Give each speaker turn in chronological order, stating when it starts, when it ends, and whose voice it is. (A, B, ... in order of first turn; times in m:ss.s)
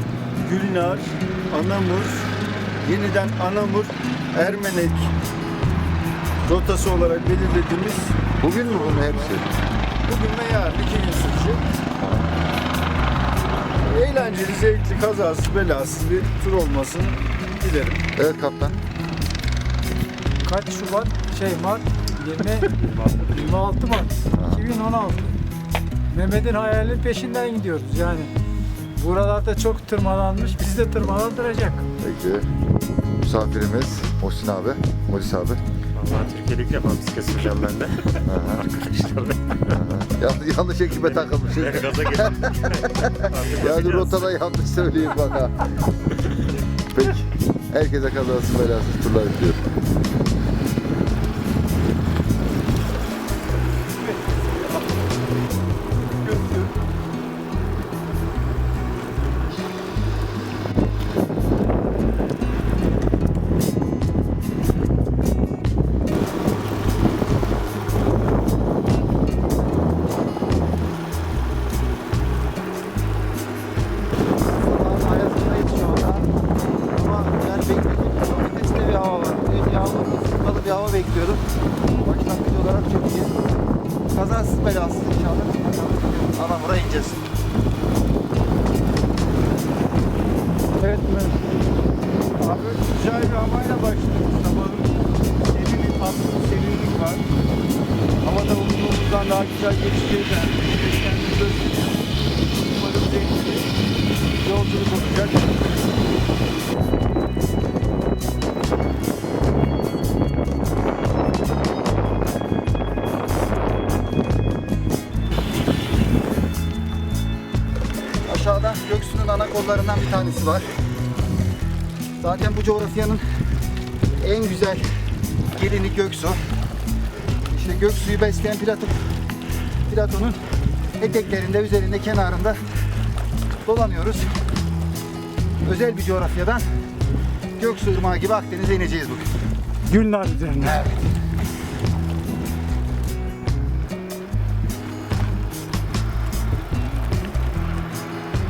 0:00.4-0:02.3 A
0:02.8-0:05.1 A
0:06.4-0:08.2 A
0:08.4-0:09.5 B
0:08.8-0:09.1 A
0:10.0-0:11.6 A
0:12.0-0:12.3 B
0:13.8-0:18.0 A
0:18.1-0:18.8 B
0:20.4-0:25.4 C
0:24.3-0:24.6 B
0:26.1-0:28.3 C
0:29.0-0:31.8 C
0:32.0-0:32.4 B
0:33.2-0:35.6 B
0:36.0-0:39.8 D
0:38.2-0:38.6 B
0:39.7-0:45.7 B
0:41.0-0:44.3 D
0:46.9-0:49.6 B
1:14.6-1:16.3 E
1:16.9-1:21.4 E
1:22.0-1:23.3 E
1:24.1-1:27.2 E
1:30.8-1:31.4 C
1:32.4-1:37.3 A
1:38.2-1:43.7 A
1:44.4-1:45.7 A
1:58.2-2:00.7 E
2:02.2-2:03.2 E
2:04.2-2:04.9 E
2:05.5-2:06.4 E
2:07.4-2:09.0 E
2:09.9-2:10.4 E
2:11.0-2:12.6 E
2:13.6-2:14.3 E
2:15.6-2:16.6 E
2:17.6-2:19.3 E
2:19.9-2:20.9 C